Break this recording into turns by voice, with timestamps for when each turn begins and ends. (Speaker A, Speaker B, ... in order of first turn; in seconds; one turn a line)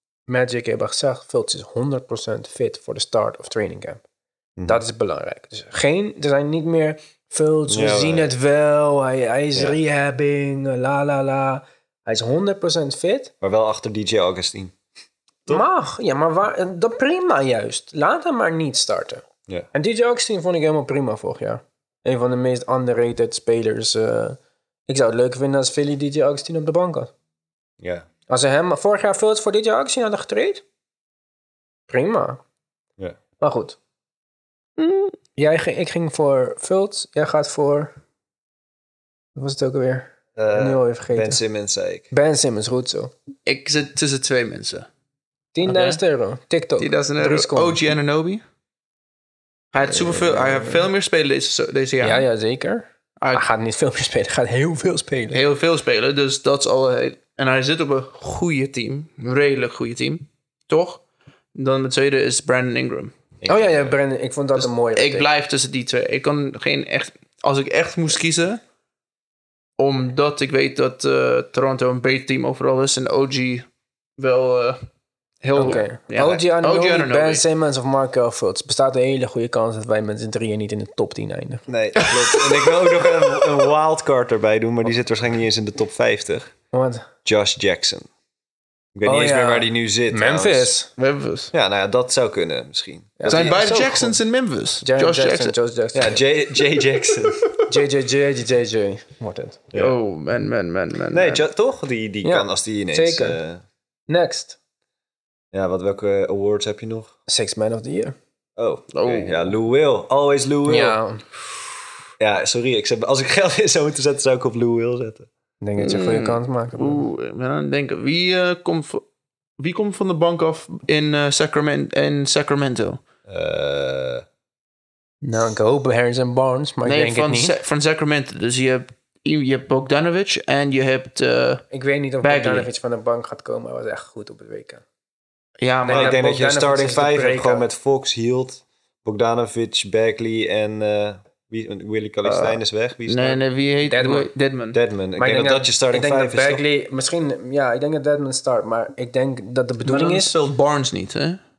Speaker A: 0.3-4.0
Speaker A: 4.7-13.3
Speaker B: 7.7-8.3
Speaker B: 13.4-14.8
Speaker A: 15.5-27.1
Speaker B: 27.8-28.1
Speaker A: 28.3-30.6
Speaker A: 31.9-32.4
Speaker A: 33.4-33.8
Speaker C: 34.8-35.1
Speaker A: 35.4-37.9
Speaker A: 39.4-41.4
Speaker B: 40.4-42.1
Speaker A: 42.1-43.1
Speaker C: 43.5-44.9
Speaker A: 45.5-47.8
Speaker C: 45.6-46.0
Speaker C: 46.8-48.4
Speaker C: 49.7-52.2
Speaker A: 49.9-50.9
Speaker A: 52.0-55.4
Speaker C: 55.3-61.0
Speaker C: 61.5-63.1
Speaker B: 63.4-63.9
Speaker A: 63.5-65.3
Speaker C: 64.6-68.6
Speaker C: 69.8-73.6
Speaker C: 74.2-74.8
Speaker C: 75.4-77.4
Speaker A: 75.5-81.7
Speaker B: 75.6-76.4
Speaker B: 81.7-86.5
Speaker C: 82.0-82.7
Speaker A: 86.7-87.1
Speaker B: 87.2-88.1
Speaker B: 88.9-90.7
Speaker A: 89.0-90.9
Speaker C: 91.0-91.5
Speaker B: 91.5-93.7
Speaker A: 93.2-94.2
Speaker C: 93.3-95.5
Speaker A: 94.8-96.2
Speaker B: 95.9-97.5
Speaker A: 97.7-99.6
Speaker C: 99.7-101.4
Speaker B: 101.1-103.6
Speaker A: 102.2-103.4
Speaker A: 104.1-104.6
Speaker B: 105.5-107.1
Speaker A: 107.3-108.1
Speaker B: 108.6-111.0
Speaker C: 108.9-109.5
Speaker A: 110.7-111.2
Speaker B: 112.2-115.3
Speaker A: 115.6-117.0
Speaker C: 115.8-119.0
Speaker C: 119.6-123.0
Speaker B: 123.3-124.2
Speaker A: 125.2-127.5
Speaker C: 126.8-131.7
Speaker A: 131.7-134.8
Speaker C: 132.2-132.7
Speaker C: 135.6-136.2
Speaker A: 135.8-137.6
Speaker B: 135.9-143.4
Speaker C: 142.2-144.8
Speaker A: 143.8-144.3
Speaker B: 144.7-146.6
Speaker A: 145.2-150.3
Speaker C: 149.8-151.4